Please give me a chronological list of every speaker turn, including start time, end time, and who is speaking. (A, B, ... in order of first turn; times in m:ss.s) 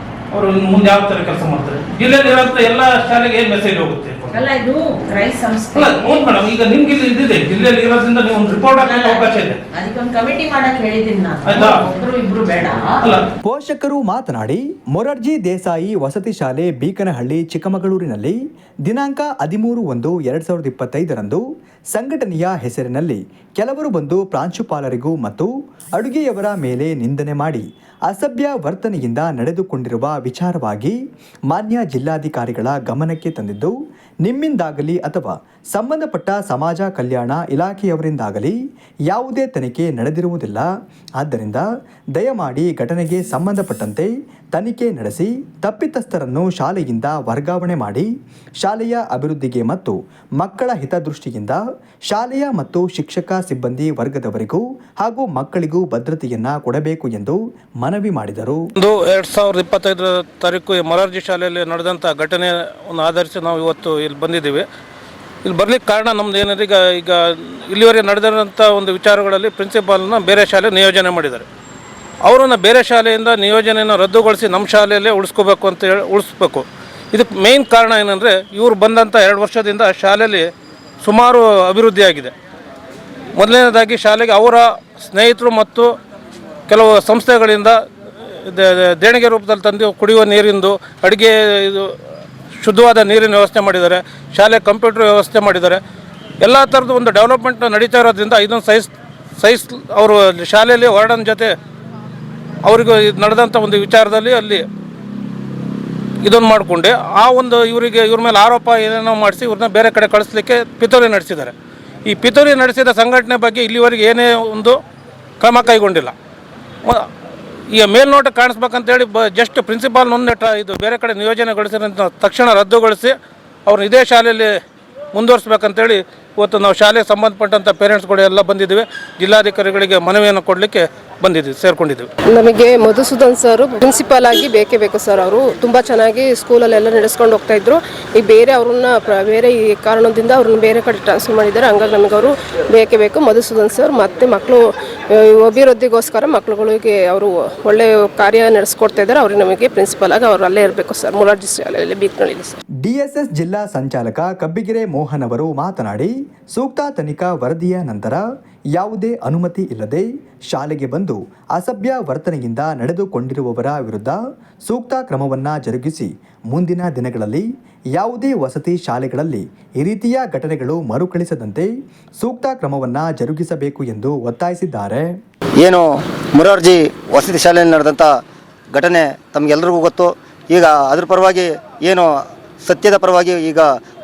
0:00.3-0:04.4 A
0:04.3-0:06.2 B
0:05.7-0:09.6 A
0:08.8-0:13.0 B
0:11.4-0:11.8 A
0:13.4-0:31.0 C
0:31.5-0:38.6 C
0:39.1-0:48.1 C
0:48.6-0:58.7 C
0:58.8-1:04.6 A
1:05.4-1:11.4 A
1:12.2-1:20.5 A
1:21.0-1:22.3 A
1:23.3-1:25.9 A
1:26.7-1:27.8 A
1:28.3-1:31.9 A
1:32.6-1:35.8 A
1:36.4-1:41.5 A
1:42.6-1:44.6 A
1:46.2-1:51.5 A
1:52.0-1:54.8 A
1:55.4-1:56.1 A
1:57.7-2:03.1 A
2:03.6-2:04.5 A
2:05.1-2:12.1 A
2:12.3-2:32.6 D
2:32.8-2:38.2 C
2:38.7-2:55.1 C
2:55.6-2:58.1 E
2:58.7-3:03.7 E